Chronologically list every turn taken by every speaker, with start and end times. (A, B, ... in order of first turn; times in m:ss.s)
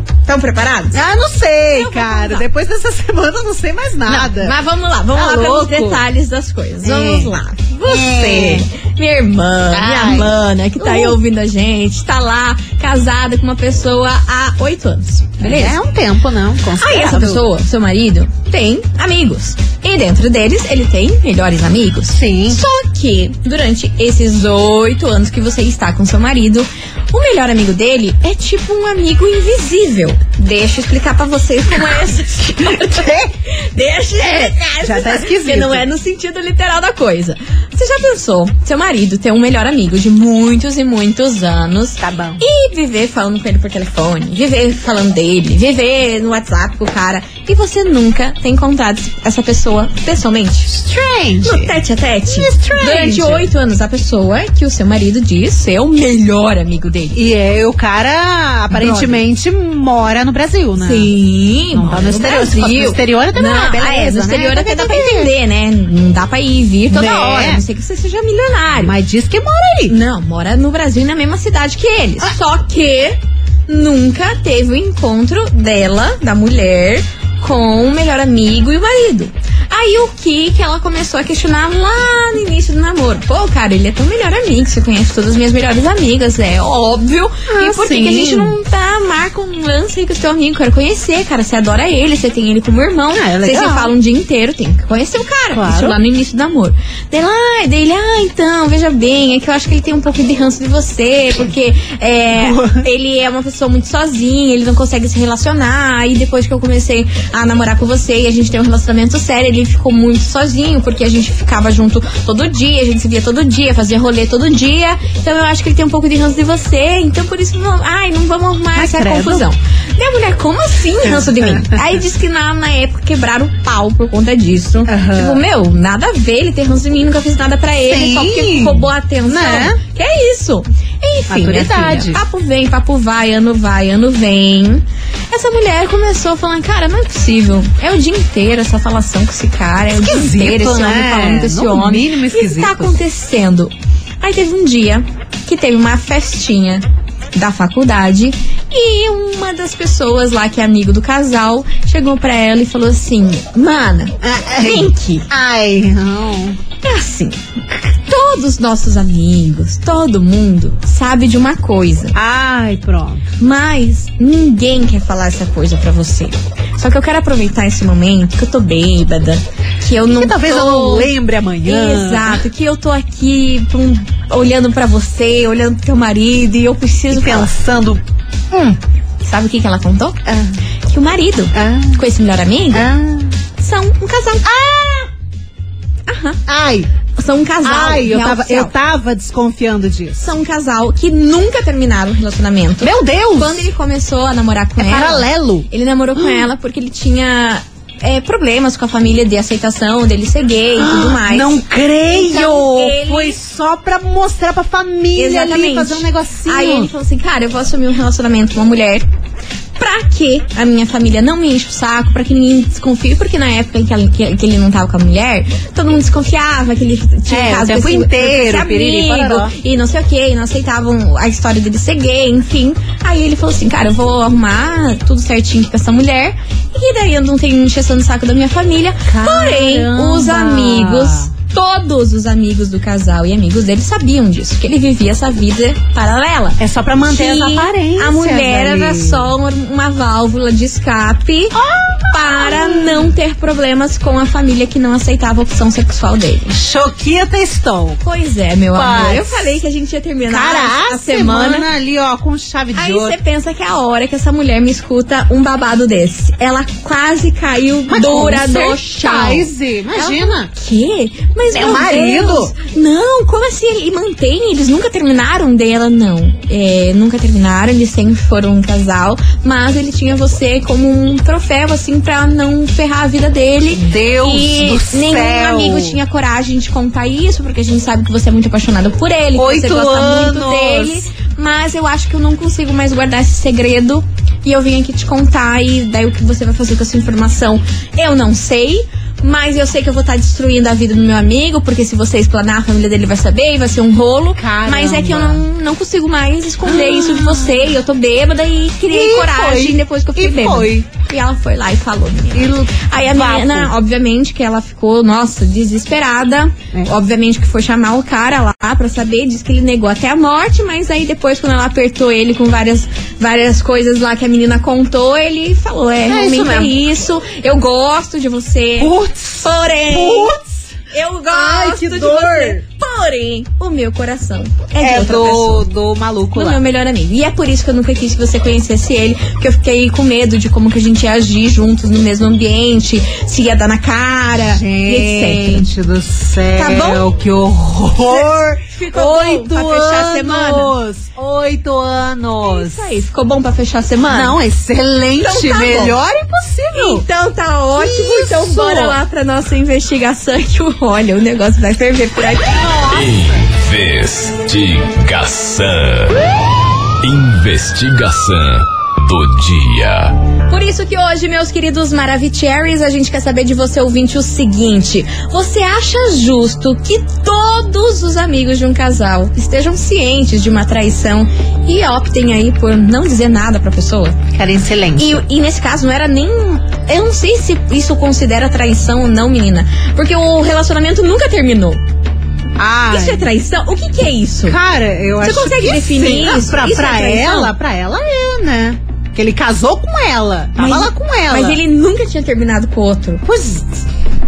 0:00.2-0:01.0 A
0:00.9-0:04.6 B
0:01.7-0:02.4 A
0:04.0-0:15.8 A
0:05.1-0:06.0 B
0:06.8-0:07.3 B
0:07.8-0:08.7 B
0:09.7-0:11.2 B
0:15.4-0:17.4 B
0:16.8-0:50.7 A
0:22.1-0:22.6 B
0:32.8-0:33.3 B
0:34.2-0:35.9 B
0:42.0-0:42.4 B
0:50.7-0:53.5 B
0:51.4-0:57.2 A
0:57.1-1:01.1 B
0:58.7-0:59.2 A
1:00.8-1:08.9 A
1:01.7-1:05.3 B
1:06.9-1:07.6 B
1:08.8-1:09.9 B
1:09.9-2:35.3 A
1:27.5-1:28.5 B
1:33.1-1:33.9 B
1:35.5-1:36.0 B
1:42.3-1:42.8 B
1:58.7-1:59.4 B
2:01.0-2:01.8 B
2:04.9-2:05.4 B
2:07.9-2:09.8 B
2:11.3-2:12.2 B
2:19.9-2:22.9 B
2:34.2-2:36.6 B
2:36.8-2:42.1 A
2:42.1-2:43.2 B
2:43.4-2:51.1 A
2:50.1-2:52.4 B
2:51.6-2:57.5 A
2:57.1-2:58.8 B
2:59.2-3:00.2 A
3:00.3-3:00.6 B
3:00.9-3:02.9 A
3:01.5-3:02.0 B
3:02.7-3:03.4 B
3:03.6-3:04.4 A
3:04.4-3:05.1 B
3:06.1-3:06.4 A
3:06.5-3:06.9 B
3:07.2-3:08.7 A
3:07.6-3:10.3 B
3:10.2-3:23.4 A
3:12.8-3:13.7 B
3:14.8-3:16.5 B
3:20.8-3:26.9 B
3:25.1-3:29.0 A
3:29.8-4:01.6 A
3:37.3-3:39.5 B
3:49.1-3:51.3 B
3:56.6-3:59.3 B
4:01.5-4:03.1 B
4:02.1-4:06.6 A
4:06.5-4:08.0 B
4:08.0-4:11.7 A
4:08.7-4:09.5 B
4:10.3-4:13.2 B
4:12.7-5:20.4 A
4:17.9-4:20.5 B
4:21.5-4:22.5 B
4:33.7-4:36.0 B
4:39.4-4:41.1 B
4:54.4-4:55.4 B
4:56.6-4:57.6 B
4:58.9-5:00.9 B
5:02.3-5:03.7 B
5:16.1-5:16.7 B
5:18.8-5:20.7 B
5:20.9-5:25.7 A
5:21.3-5:22.6 B
5:24.8-5:26.6 B
5:26.3-5:35.7 A
5:34.4-5:43.0 B
5:36.6-5:37.0 A
5:38.0-5:40.7 A
5:42.4-5:44.4 A
5:44.0-5:47.0 B
5:45.2-5:46.0 A
5:46.7-5:52.7 A
5:47.8-5:49.0 B
5:52.5-5:53.1 B
5:52.9-5:56.2 C
5:57.0-6:00.2 C
6:00.5-6:14.2 A
6:14.3-6:15.2 B
6:15.0-6:21.8 A
6:22.6-6:23.3 B
6:22.9-6:24.6 A
6:24.4-6:31.6 B
6:25.2-6:27.5 A
6:30.6-6:33.2 A
6:33.2-6:33.8 B